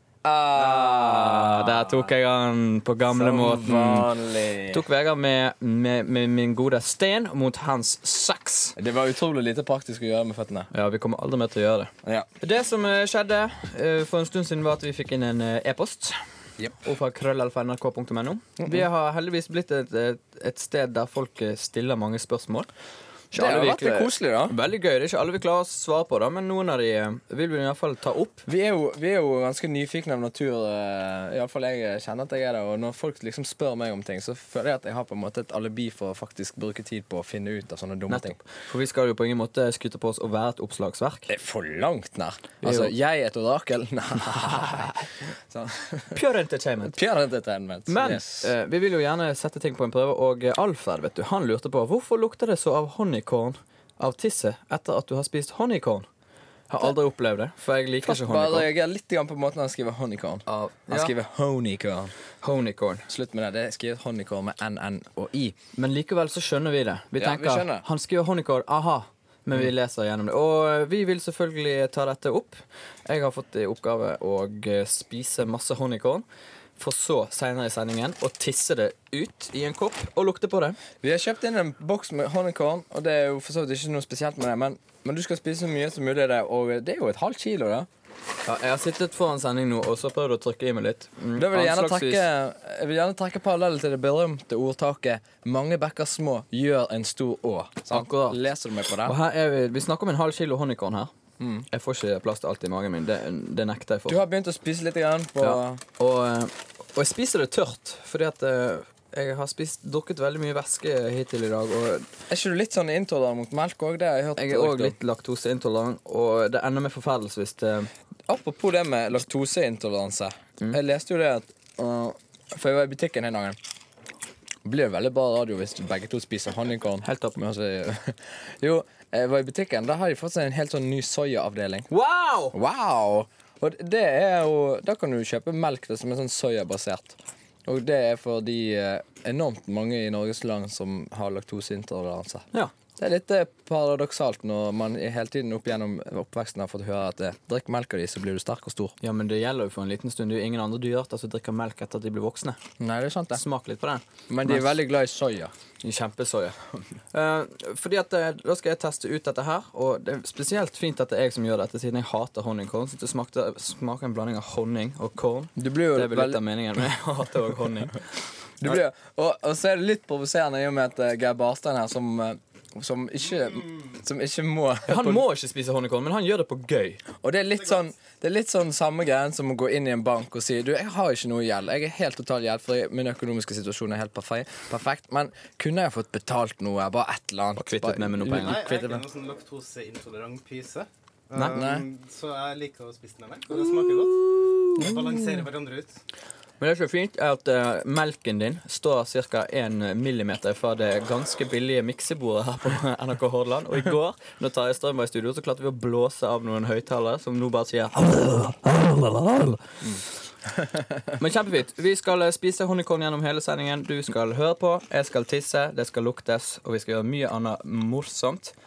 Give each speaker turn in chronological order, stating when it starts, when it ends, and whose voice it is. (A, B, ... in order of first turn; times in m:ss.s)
0:00.2-0:02.1 A
0:00.6-0:04.1 B
0:03.1-0:04.8 A
0:04.7-0:08.8 B
0:08.8-0:10.7 A
0:10.7-0:16.2 B
0:16.8-0:22.7 B
0:23.3-0:28.4 B
0:23.3-0:24.6 A
0:28.5-0:38.4 A
0:38.1-0:41.3 B
0:41.3-0:45.0 A
0:42.6-0:42.9 B
0:44.2-0:45.0 B
0:45.5-0:46.2 A
0:46.1-0:46.9 B
0:46.9-0:48.5 A
0:47.9-0:56.1 B
0:56.7-0:58.7 B
0:58.0-1:02.1 A
1:00.5-1:01.1 B
1:02.4-1:03.0 B
1:03.1-1:05.6 A
1:05.8-1:16.2 B
1:07.2-1:07.8 A
1:16.8-1:20.8 B
1:21.0-1:27.9 A
1:28.4-1:32.2 B
1:31.4-1:39.2 A
1:37.9-1:38.4 B
1:39.0-1:41.1 B
1:41.4-1:41.7 A
1:41.7-1:44.2 B
1:44.1-1:45.8 A
1:45.4-1:52.1 B
1:52.3-1:54.9 A
1:54.4-1:57.9 B
1:58.3-2:03.6 A
2:04.6-2:11.9 A
2:07.0-2:07.4 B
2:11.9-2:12.5 B
2:12.5-2:29.0 A
2:29.0-2:32.6 B
2:32.8-2:33.4 A
2:33.3-2:34.7 B
2:34.3-2:35.5 A
2:35.8-2:36.6 B
2:37.1-2:48.0 B
2:45.6-2:46.4 A
2:48.6-2:55.2 A
2:54.9-2:57.0 B
2:57.2-3:09.0 A
3:07.6-3:08.6 B
3:08.2-3:14.2 C
3:11.5-3:11.8 A
3:13.5-3:15.0 B
3:14.8-3:16.0 C
3:16.6-3:29.6 B
3:31.2-3:38.6 B